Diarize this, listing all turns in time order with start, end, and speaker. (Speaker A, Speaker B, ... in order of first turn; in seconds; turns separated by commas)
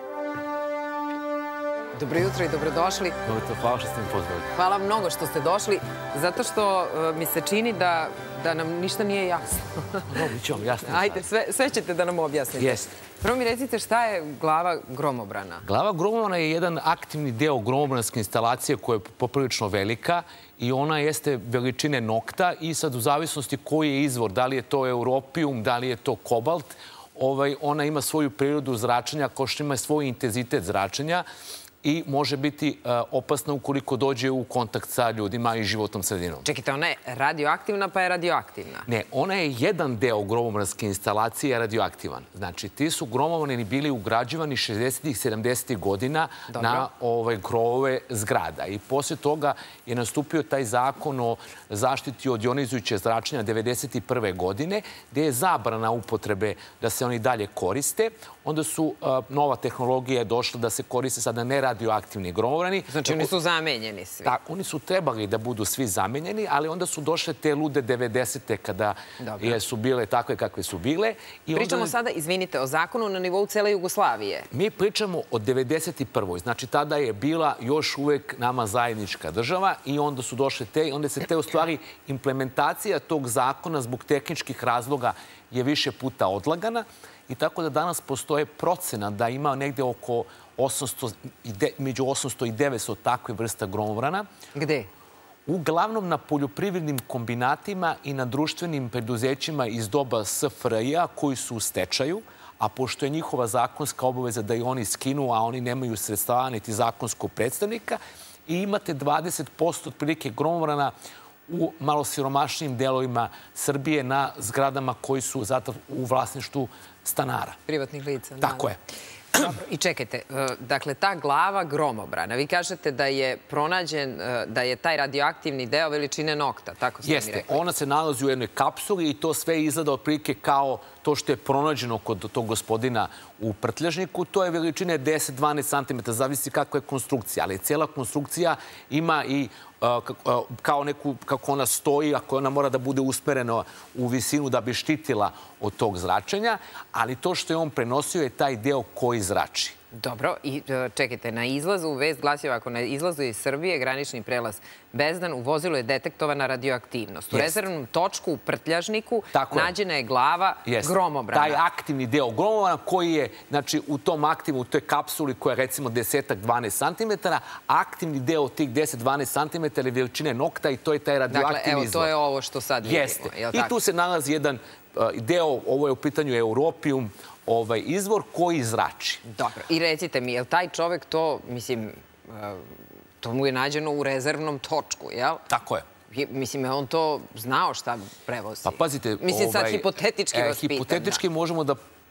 Speaker A: 1.9-3.2, Speaker B: 3.2-4.5, Speaker A: 4.5-10.1, Speaker B: 10.1-11.2, Speaker A: 10.8-15.6, Speaker B: 12.6-12.9, Speaker B: 15.6-31.2, Speaker B: 31.8-36.5, Speaker A: 36.5-38.9, Speaker B: 38.9-63.3, Speaker A: 46.5-46.9, Speaker A: 62.9-64.3, Speaker B: 64.2-71.9, Speaker A: 69.2-69.6, Speaker A: 71.5-74.5, Speaker B: 74.5-94.3, Speaker A: 94.5-94.9, Speaker B: 95.5-110.9, Speaker B: 111.5-117.6, Speaker A: 117.7-118.7, Speaker B: 118.4-118.8, Speaker A: 119.3-127.6, Speaker B: 127.0-149.8, Speaker A: 149.9-161.6, Speaker B: 157.3-157.6, Speaker B: 159.3-159.7, Speaker B: 160.7-172.1, Speaker A: 171.3-173.8, Speaker B: 172.8-179.2, Speaker A: 179.2-185.4, Speaker B: 185.5-185.9, Speaker A: 186.1-191.2, Speaker B: 188.7-191.8